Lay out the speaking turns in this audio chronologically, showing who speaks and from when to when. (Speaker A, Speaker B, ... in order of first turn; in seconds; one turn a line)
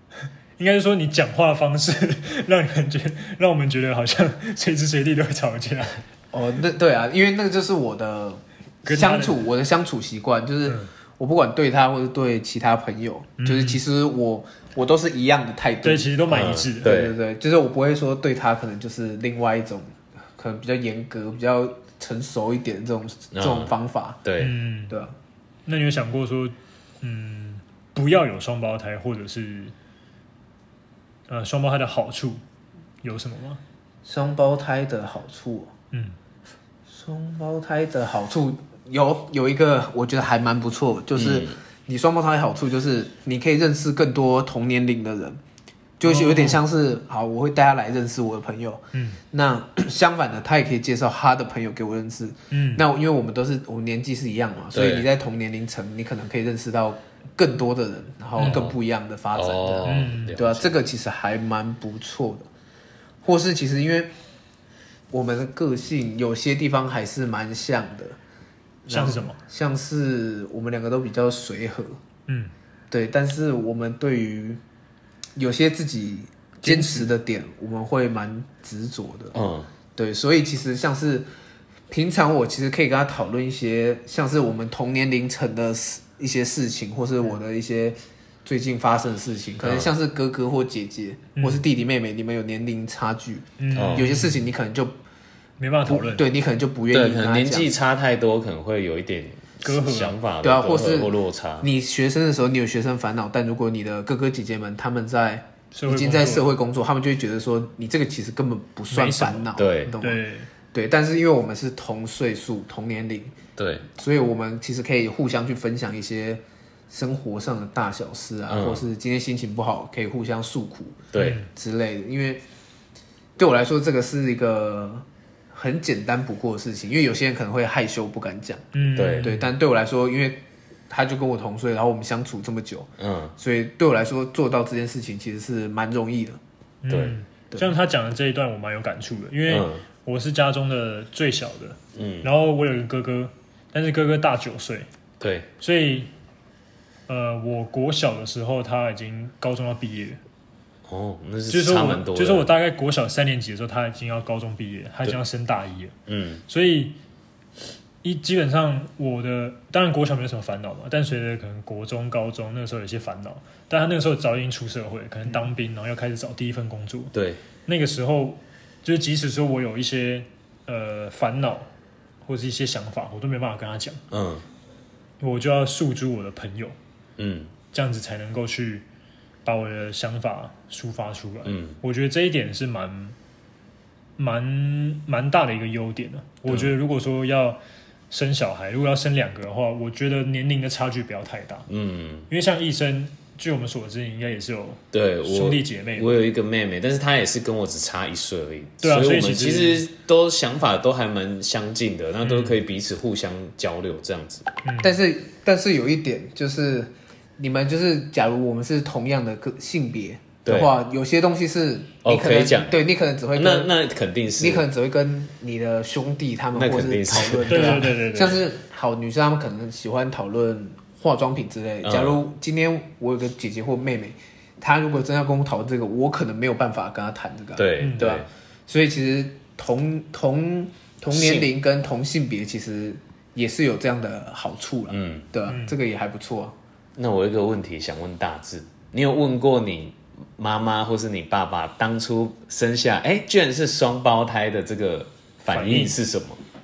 Speaker A: 0.6-6.0
Speaker B: 6.3-16.1
Speaker A: 8.8-9.4
Speaker A: 13.4-13.8
Speaker A: 15.8-16.9
Speaker C: 16.3-17.1
Speaker B: 16.8-24.2
Speaker C: 23.3-23.7
Speaker C: 24.2-24.5
Speaker A: 24.4-24.9
Speaker B: 24.9-25.1
Speaker A: 25.6-29.7
Speaker A: 31.3-32.4
Speaker A: 33.0-33.6
Speaker B: 34.0-35.7
Speaker B: 36.9-45.4
Speaker C: 41.1-41.5
Speaker B: 46.0-62.5
Speaker A: 46.0-46.6
Speaker A: 48.9-49.2
Speaker A: 52.5-52.8
Speaker C: 54.7-55.0
Speaker A: 58.4-58.7
Speaker C: 58.4-58.8
Speaker C: 59.3-60.8
Speaker A: 59.8-60.4
Speaker B: 63.2-64.1
Speaker B: 65.1-68.2
Speaker B: 68.8-72.0
Speaker A: 68.9-69.4
Speaker B: 72.9-74.6
Speaker B: 75.3-79.3
Speaker A: 76.6-77.1
Speaker C: 79.3-79.7
Speaker B: 80.0-81.3
Speaker B: 81.9-95.0
Speaker C: 89.6-89.9
Speaker A: 91.3-91.6
Speaker A: 93.6-94.5
Speaker C: 93.7-94.1
Speaker A: 95.6-96.3
Speaker B: 95.8-97.7
Speaker C: 96.9-101.7
Speaker A: 99.6-100.2
Speaker B: 100.4-110.2
Speaker A: 105.7-106.5
Speaker A: 108.9-110.5
Speaker C: 109.5-109.9
Speaker B: 110.7-113.3
Speaker C: 113.6-113.8
Speaker B: 113.9-122.4
Speaker C: 118.5-118.8
Speaker C: 121.1-121.4
Speaker A: 121.2-121.5
Speaker B: 123.4-128.6
Speaker A: 128.7-129.5
Speaker C: 128.9-129.3
Speaker B: 129.2-136.4
Speaker C: 133.0-133.3
Speaker A: 136.8-144.9
Speaker C: 136.9-137.1
Speaker C: 139.5-139.8
Speaker C: 141.9-142.3
Speaker C: 145.2-145.5
Speaker A: 145.6-146.1
Speaker A: 147.1-150.2
Speaker C: 150.9-152.5
Speaker A: 151.5-155.9
Speaker C: 156.1-156.4
Speaker A: 156.5-157.0
Speaker A: 158.0-167.1
Speaker C: 167.1-167.4
Speaker A: 167.7-171.7
Speaker A: 172.2-174.0
Speaker C: 174.1-174.4
Speaker A: 175.2-176.8
Speaker C: 177.2-177.5
Speaker A: 177.7-178.8
Speaker A: 179.4-183.1
Speaker C: 181.4-181.8
Speaker A: 184.2-187.6
Speaker C: 186.5-186.7
Speaker A: 188.1-191.7
Speaker C: 191.7-192.3
Speaker A: 192.3-196.2
Speaker C: 194.9-204.5
Speaker A: 198.8-199.8
Speaker A: 202.2-202.6
Speaker A: 204.6-205.0
Speaker B: 204.8-213.7
Speaker C: 210.4-210.7
Speaker C: 212.0-212.8
Speaker C: 213.3-214.6
Speaker B: 214.4-236.6
Speaker C: 216.5-217.9
Speaker A: 217.5-218.4
Speaker C: 221.8-222.2
Speaker C: 227.6-228.3
Speaker A: 227.8-228.1
Speaker C: 231.1-231.5
Speaker C: 234.9-235.3
Speaker A: 235.4-235.8
Speaker C: 236.9-246.4
Speaker A: 245.5-246.0